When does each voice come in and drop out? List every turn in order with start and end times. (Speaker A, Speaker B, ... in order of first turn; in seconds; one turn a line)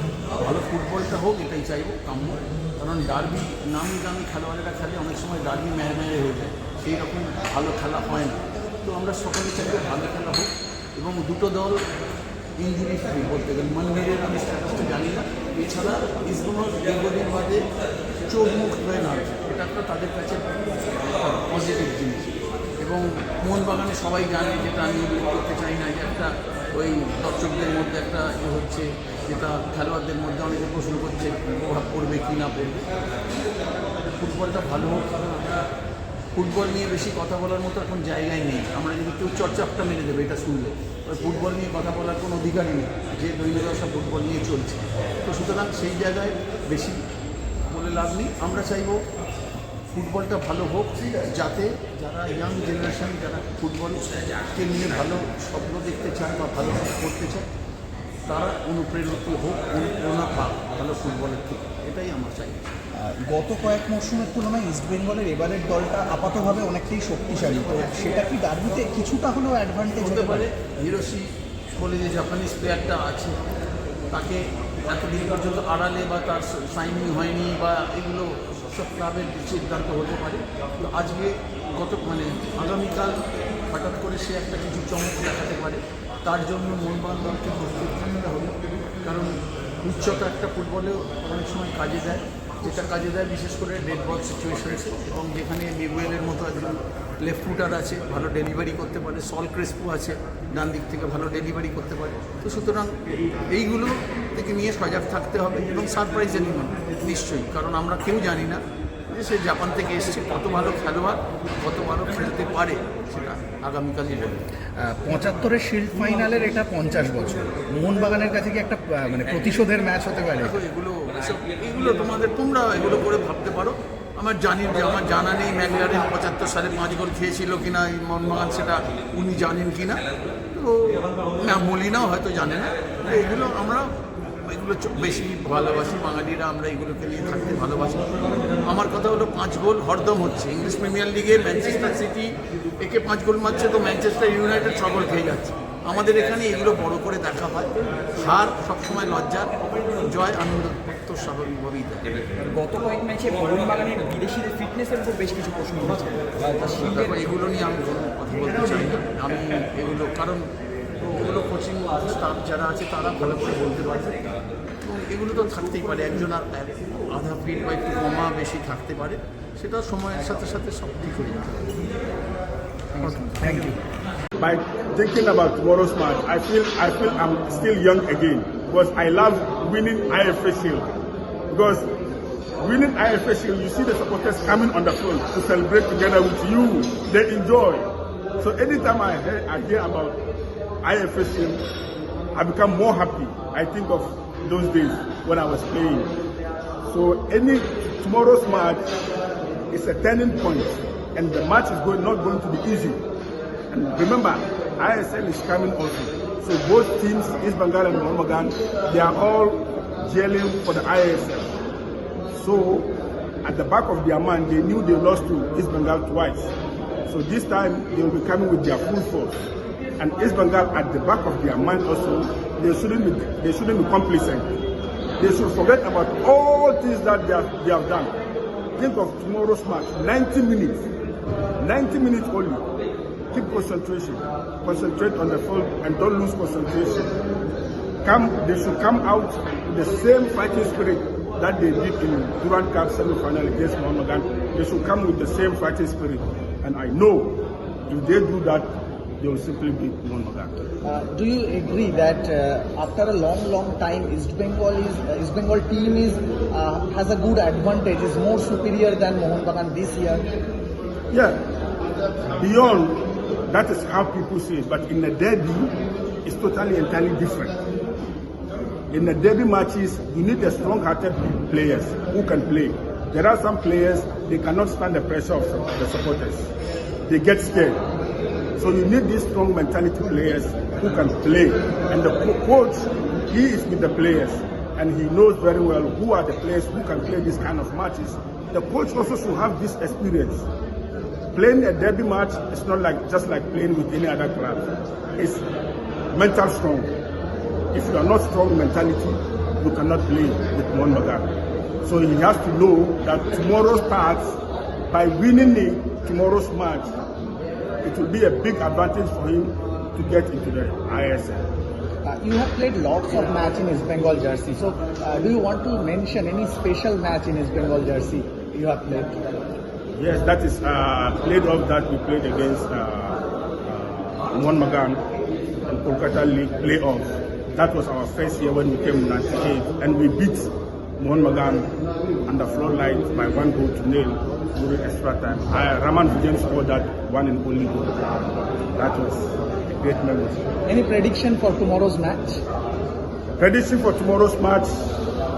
Speaker A: 0.4-11.8
Speaker A: 12.6-17.6
Speaker A: 18.3-32.9
Speaker A: 34.0-35.6
Speaker A: 36.4-47.0
Speaker A: 47.7-49.0
Speaker A: 49.9-57.5
Speaker A: 58.3-62.8
Speaker B: 63.0-70.4
Speaker A: 69.8-73.4
Speaker A: 74.1-83.2
Speaker A: 83.7-102.9
Speaker A: 103.5-114.5
Speaker B: 114.8-120.6
Speaker A: 120.4-130.0
Speaker A: 130.5-133.9
Speaker A: 134.5-138.1
Speaker A: 138.6-149.5
Speaker A: 150.1-152.2
Speaker C: 152.4-157.3
Speaker A: 156.6-160.5
Speaker A: 161.0-164.2
Speaker A: 164.8-171.8
Speaker B: 173.0-173.7
Speaker D: 174.4-180.9
Speaker D: 181.5-181.9
Speaker D: 182.6-190.2
Speaker D: 190.8-191.6
Speaker D: 192.3-196.1
Speaker D: 196.8-198.9
Speaker D: 199.7-203.0
Speaker D: 203.7-211.5
Speaker D: 212.3-212.9
Speaker D: 213.4-216.5
Speaker D: 217.1-219.4
Speaker D: 220.0-224.6
Speaker D: 225.2-228.1
Speaker D: 228.8-230.9
Speaker D: 231.6-232.6
Speaker D: 233.3-237.1
Speaker D: 238.0-250.5
Speaker E: 250.9-260.3
Speaker D: 261.1-261.4
Speaker D: 262.3-265.7
Speaker D: 266.3-267.6
Speaker D: 268.9-276.5
Speaker D: 277.1-277.8
Speaker D: 278.6-290.5
Speaker D: 291.3-295.4
Speaker D: 296.1-296.9
Speaker D: 297.7-301.3
Speaker D: 301.8-304.4
Speaker D: 304.9-307.0
Speaker D: 307.8-311.5
Speaker E: 312.1-319.2
Speaker D: 320.0-325.0
Speaker D: 325.7-331.7
Speaker D: 332.3-337.9
Speaker D: 338.8-340.5
Speaker E: 340.7-342.4
Speaker D: 343.4-344.9